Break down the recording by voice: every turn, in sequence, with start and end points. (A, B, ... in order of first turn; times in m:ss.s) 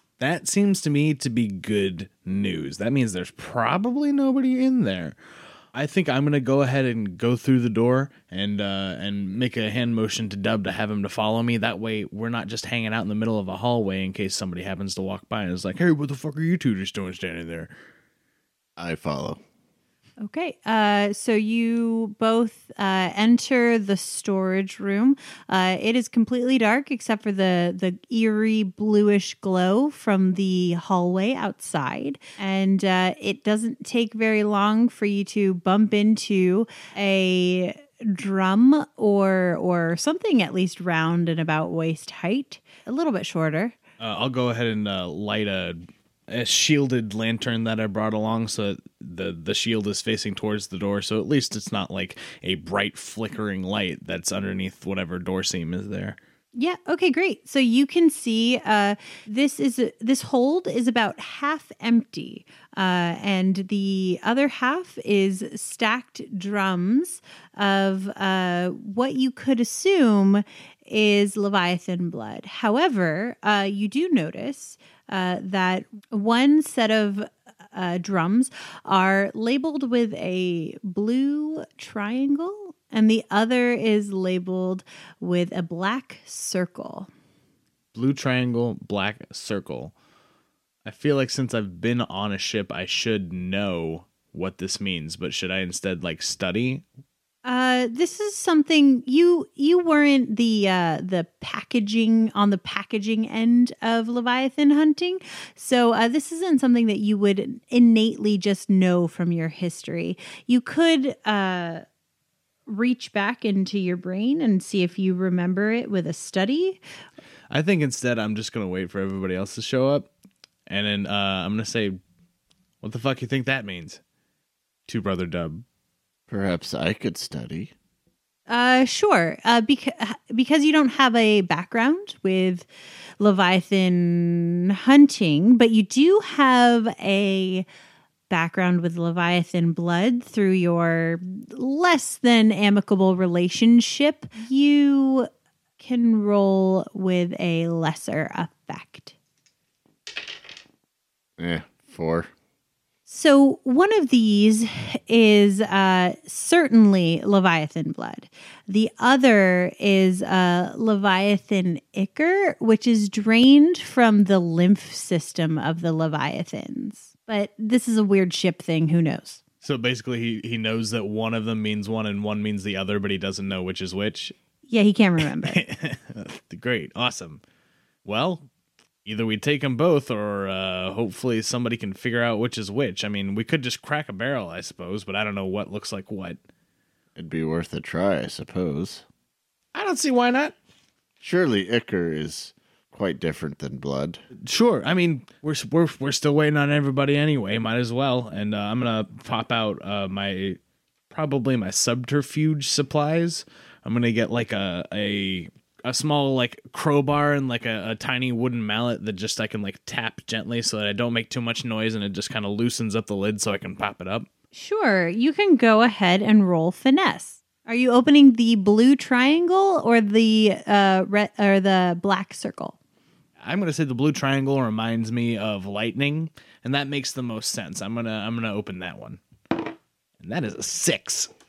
0:00.2-0:05.2 A
0:05.7-0:17.7 A
0:18.8-0:19.4 B
0:20.2-0:43.7 C
0:44.0-0:56.2 A
0:56.5-1:27.1 C
1:27.9-1:29.9 A
1:30.8-1:36.8 A
1:37.4-1:51.8 C
1:52.7-1:56.8 C
1:57.5-2:00.1 A
2:00.7-2:02.0 A
2:02.8-2:04.0 A
2:04.9-2:05.6 A
2:06.3-2:07.7 B
2:08.5-2:12.7 C
2:13.2-2:17.6 C
2:18.3-2:29.1 C
2:31.4-2:32.3 B
2:33.1-2:49.4 C
2:49.6-2:54.3 A
2:54.7-2:55.6 C
2:55.4-2:57.4 A
2:58.0-2:58.5 A
2:59.0-3:06.4 A
3:07.2-3:09.0 B
3:09.7-3:10.5 A
3:11.2-3:14.2 B
3:14.4-3:20.6 A
3:21.1-3:34.3 A
3:34.5-3:42.8 C
3:43.4-3:51.3 A